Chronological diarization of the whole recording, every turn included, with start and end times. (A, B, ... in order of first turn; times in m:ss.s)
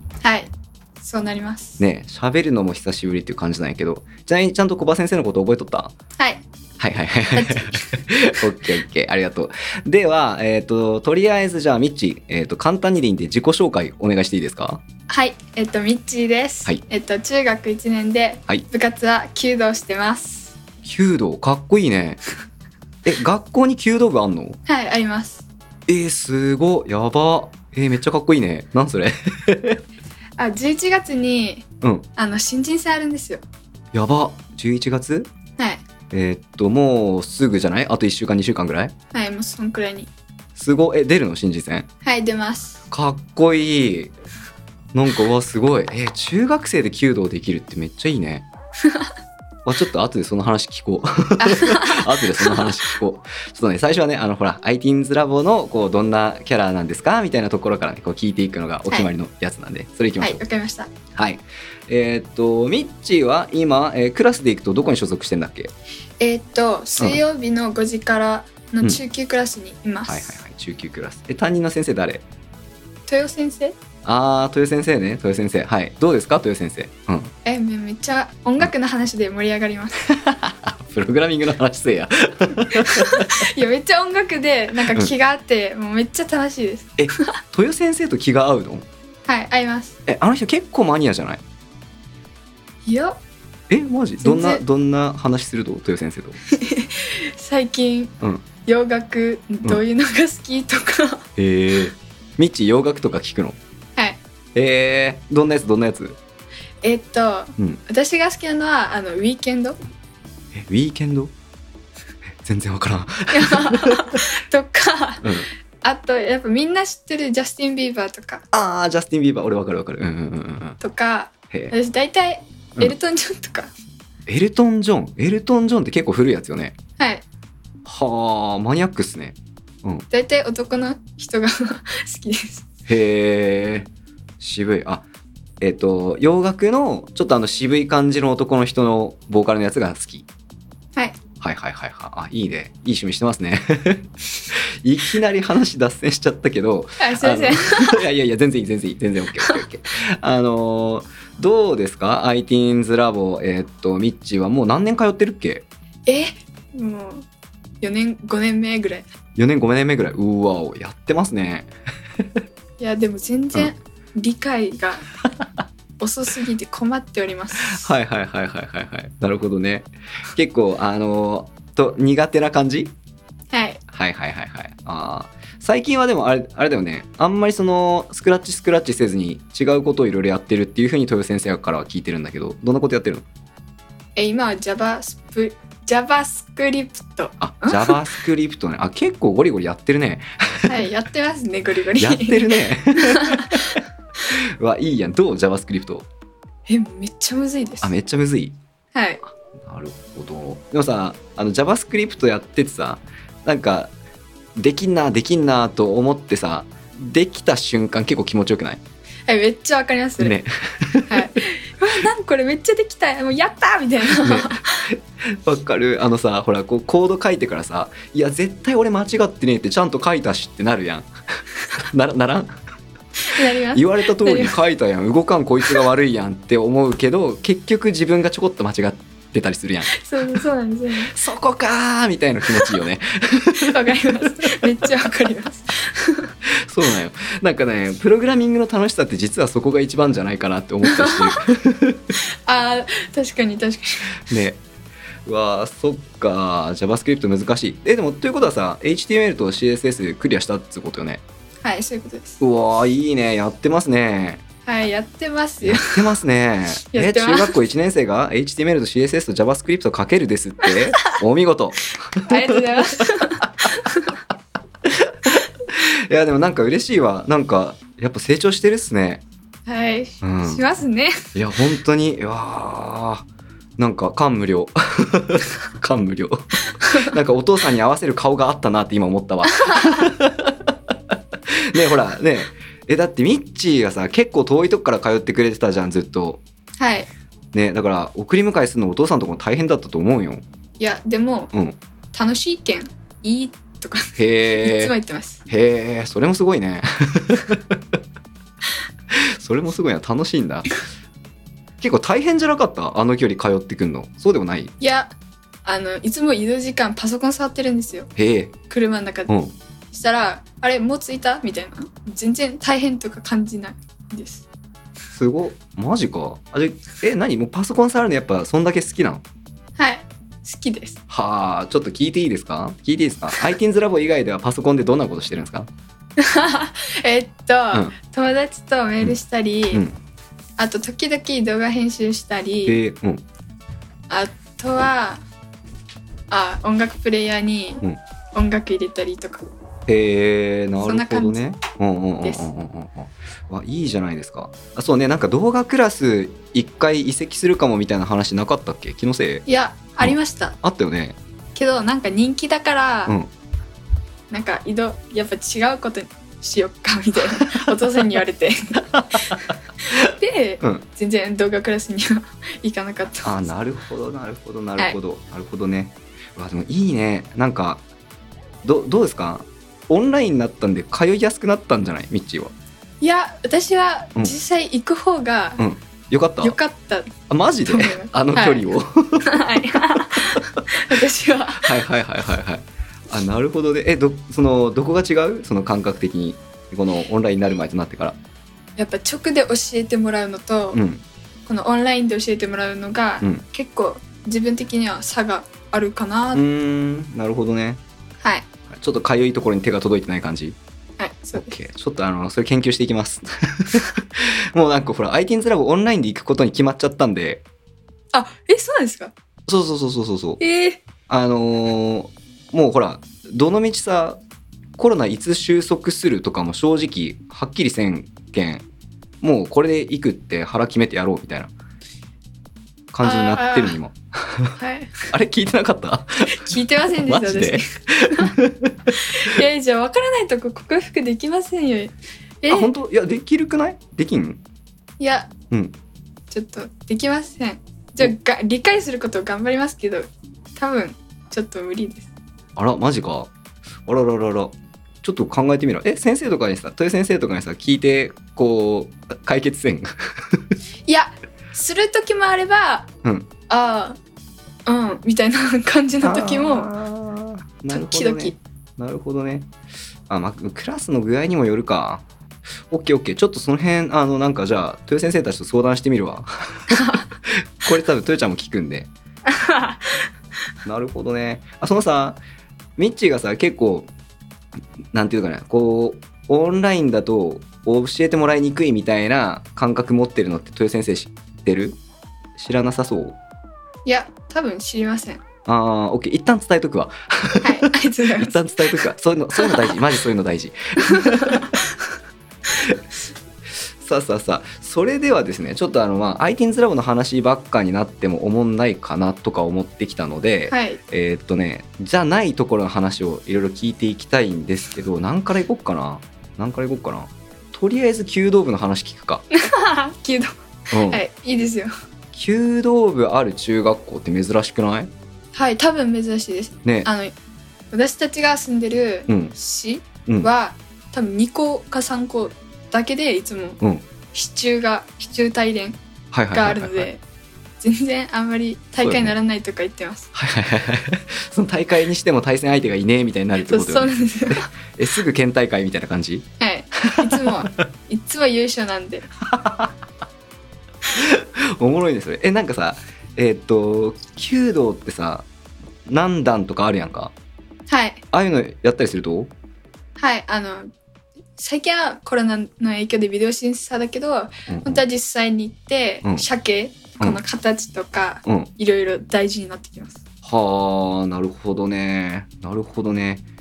0:00.2-0:01.8 A
0:01.8-0:05.9 B
0:06.2-0:06.4 A
0:06.8-0:14.8 B
0:07.3-0:08.1 A
0:15.1-0:20.6 A
0:20.8-0:22.2 B
0:23.0-0:24.6 B
0:24.7-0:25.4 A
0:25.9-0:29.8 B
0:30.4-0:33.4 A
0:31.8-0:32.1 B
0:33.9-0:35.3 B
0:35.6-0:35.8 A
0:36.1-0:38.9 B
0:39.1-0:40.1 A
0:40.6-0:41.9 B
0:42.0-0:42.8 A
0:42.9-0:44.1 B
0:44.9-0:48.5 B
0:48.8-0:49.1 A
0:49.6-1:00.4 B
0:51.4-0:52.7 A
1:00.2-1:00.9 A
1:01.1-1:05.7 B
1:06.2-1:10.4 A
1:10.1-1:12.2 B
1:13.1-1:13.8 A
1:14.0-1:17.3 B
1:17.4-1:20.1 A
1:20.1-1:23.4 B
1:22.7-1:27.3 A
1:27.0-1:28.9 B
1:29.3-1:30.0 A
1:30.1-1:31.4 B
1:32.9-1:33.2 A
1:33.7-1:36.4 B
1:34.2-1:34.6 A
1:36.5-1:38.1 A
1:38.6-1:41.2 A
1:41.4-1:43.6 B
1:44.6-1:46.2 B
1:46.8-1:49.8 A
1:50.5-1:51.3 B
1:52.4-1:54.2 B
1:53.3-1:58.4 A
1:55.2-1:55.5 B
1:58.5-2:00.8 B
2:00.8-2:03.7 A
2:04.3-2:06.8 B
2:07.0-2:07.2 A
2:07.8-2:10.0 B
2:10.1-2:12.7 A
2:12.9-2:13.9 B
2:14.4-2:15.0 B
2:15.6-2:20.3 B
2:21.4-2:35.7 B
2:27.0-2:28.0 A
2:36.1-2:37.3 A
2:37.8-2:39.1 A
2:39.4-2:42.2 B
2:42.8-2:45.0 A
2:46.0-2:47.9 A
2:47.6-2:52.9 B
2:53.5-2:53.8 A
2:53.9-3:03.2 B
3:04.2-3:08.0 A
3:07.4-3:10.8 B
3:10.7-3:13.8 A
3:12.0-3:16.1 B
3:16.7-3:17.9 A
3:17.8-3:18.6 B
3:18.9-3:19.2 A
3:19.6-3:23.9 B
3:24.6-3:28.8 B
3:29.3-3:30.4 A
3:30.2-3:31.3 B
3:31.1-3:34.9 A
3:34.2-3:41.1 B
3:41.8-3:42.6 B
3:43.2-3:44.6 A
3:43.4-3:50.4 B
3:49.9-3:51.1 A
3:51.1-3:54.9 B
3:53.6-3:56.3 A
3:56.4-4:02.1 B
4:00.9-4:01.4 A
4:02.2-4:04.2 A
4:04.3-4:04.6 B
4:05.3-4:11.2 B
4:11.6-4:12.4 A
4:12.4-4:14.4 B
4:14.7-4:16.1 A
4:15.6-4:23.7 B
4:16.9-4:17.6 A
4:22.2-4:24.2 A
4:24.8-4:29.2 B
4:29.7-4:31.2 A
4:30.2-4:30.6 B
4:31.4-4:33.2 B
4:33.8-4:46.4 B
4:36.8-4:37.1 A
4:39.5-4:40.1 A
4:46.8-4:47.1 A
4:47.5-4:50.4 B
4:50.8-4:51.5 A
4:52.1-4:55.4 A
4:54.2-4:54.9 B
4:55.5-4:57.8 B
4:59.1-5:00.7 B
5:01.8-5:04.7 B
5:04.8-5:05.1 A
5:05.6-5:08.1 A
5:08.2-5:08.5 B
5:08.7-5:09.4 A
5:09.3-5:09.5 B
5:09.9-5:14.5 A
5:15.1-5:19.2 B
5:19.8-5:21.0 A
5:21.1-5:25.7 B
5:26.2-5:29.8 A
5:30.6-5:32.8 A
5:32.7-5:33.2 B
5:34.1-5:35.2 A
5:36.3-5:37.8 A
5:38.4-5:39.4 A
5:39.9-5:49.4 B
5:40.8-5:41.4 A
5:42.2-5:42.5 A
5:49.5-5:50.6 A
5:50.0-5:51.2 B
5:51.6-5:53.2 A
5:54.3-6:03.4 A
5:58.9-5:59.3 B
6:03.2-6:07.8 B
6:08.6-6:12.5 B
6:13.0-6:15.6 A
6:15.6-6:16.6 B
6:16.4-6:17.2 A
6:17.3-6:19.6 B
6:17.7-6:21.8 A
6:21.6-6:28.2 B
6:28.8-6:30.8 A
6:30.7-6:31.0 B
6:31.5-6:36.4 A
6:36.3-6:37.8 B
6:38.7-6:40.6 B
6:41.0-6:41.6 A
6:41.3-6:47.4 B
6:48.1-6:49.1 A
6:49.5-6:50.4 B
6:50.4-6:50.8 A
6:51.1-6:54.2 B
6:54.8-6:58.6 B
6:59.2-7:01.5 B
7:02.9-7:04.6 B
7:03.0-7:03.8 A
7:04.6-7:05.1 A
7:05.1-7:09.4 B
7:06.3-7:07.6 A
7:08.9-7:12.7 A
7:12.5-7:14.4 B
7:15.0-7:15.3 A
7:16.3-7:22.1 A
7:22.6-7:23.3 B
7:23.9-7:30.4 B
7:30.9-7:32.9 A
7:33.0-7:33.3 B
7:33.5-7:34.0 A
7:34.7-7:36.7 A
7:36.0-7:39.5 B
7:37.7-7:38.4 A
7:40.1-7:42.0 B
7:42.7-7:48.9 B
7:46.7-7:47.0 A
7:49.3-7:50.0 A
7:50.6-7:52.2 B
7:52.8-7:53.9 B
7:54.9-8:01.8 B
8:02.4-8:03.2 B
8:03.9-8:05.2 A
8:05.5-8:11.6 B
8:07.4-8:08.8 A
8:09.4-8:09.7 A
8:10.8-8:11.7 A
8:13.8-8:29.2 B
8:20.5-8:20.8 A
8:29.3-8:31.7 A
8:30.7-8:31.0 B
8:32.1-8:34.9 B
8:35.3-8:37.1 A
8:36.6-8:36.9 B
8:37.7-8:43.6 A
8:39.1-8:39.3 B
8:44.1-8:45.8 A
8:46.1-8:46.9 B
8:46.3-8:47.0 A
8:47.6-8:50.1 A
8:48.8-8:49.1 B
8:50.1-8:57.3 B
8:53.4-8:54.5 A
8:56.4-8:59.1 A
8:59.2-8:59.7 B
9:00.9-9:05.3 B
9:05.9-9:07.1 B
9:07.7-9:08.0 A
9:08.1-9:09.3 B
9:10.0-9:10.7 A
9:11.4-9:20.0 A
9:14.5-9:14.8 B
9:20.2-9:23.2 B